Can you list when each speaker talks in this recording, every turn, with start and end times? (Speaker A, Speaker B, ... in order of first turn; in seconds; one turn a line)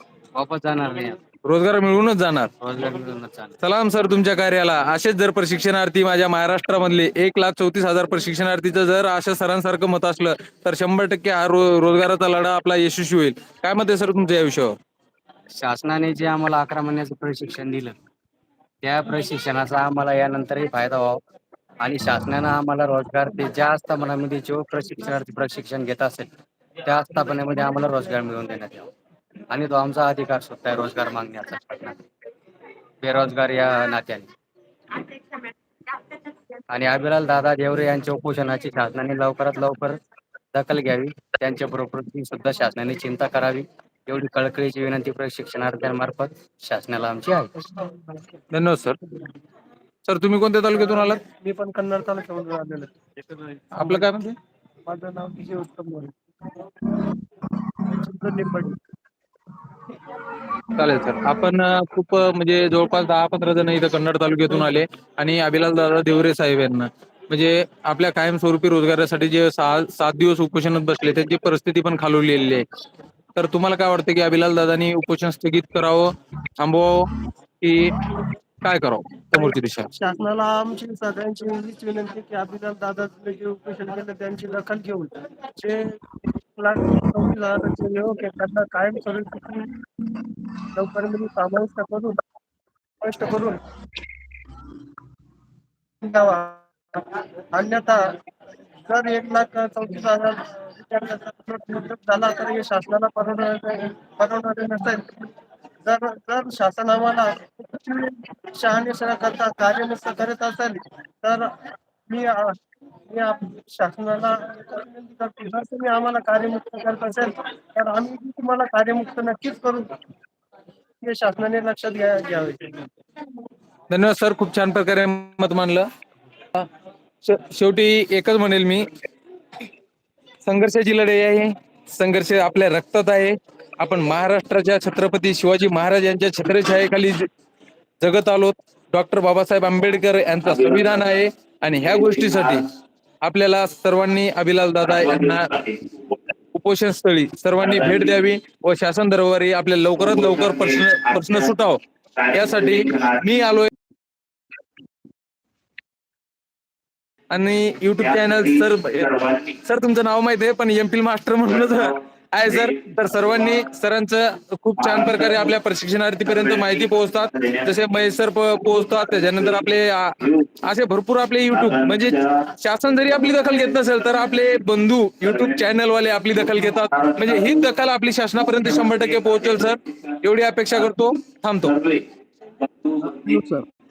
Speaker A: 0.3-1.2
Speaker B: 1.4-2.5
Speaker A: 2.6-3.5
Speaker B: 3.6-14.8
Speaker A: 15.5-17.9
Speaker A: 18.8-21.2
Speaker A: 21.8-26.3
Speaker A: 26.8-28.9
Speaker A: 29.5-32.0
Speaker A: 33.0-34.3
Speaker A: 36.7-40.0
Speaker A: 40.5-47.5
Speaker C: 47.6-48.3
Speaker B: 48.5-49.0
Speaker B: 50.0-51.2
Speaker C: 50.7-54.1
Speaker B: 53.7-54.4
Speaker C: 54.8-56.1
Speaker C: 57.8-58.8
Speaker B: 60.7-72.6
Speaker B: 73.3-77.1
Speaker B: 77.6-77.9
Speaker B: 78.6-79.9
Speaker C: 79.3-86.0
Speaker C: 86.5-89.7
Speaker C: 90.7-92.2
Speaker C: 93.0-93.6
Speaker C: 96.0-98.0
Speaker C: 98.8-105.1
Speaker C: 105.8-111.5
Speaker C: 112.1-112.5
Speaker C: 113.1-119.9
Speaker C: 121.0-122.8
Speaker B: 123.9-125.8
Speaker B: 127.2-128.8
Speaker B: 130.4-137.3
Speaker B: 138.0-142.6
Speaker B: 143.2-145.6
Speaker B: 146.5-153.7
Speaker B: 157.3-181.8
Speaker A: 183.0-183.6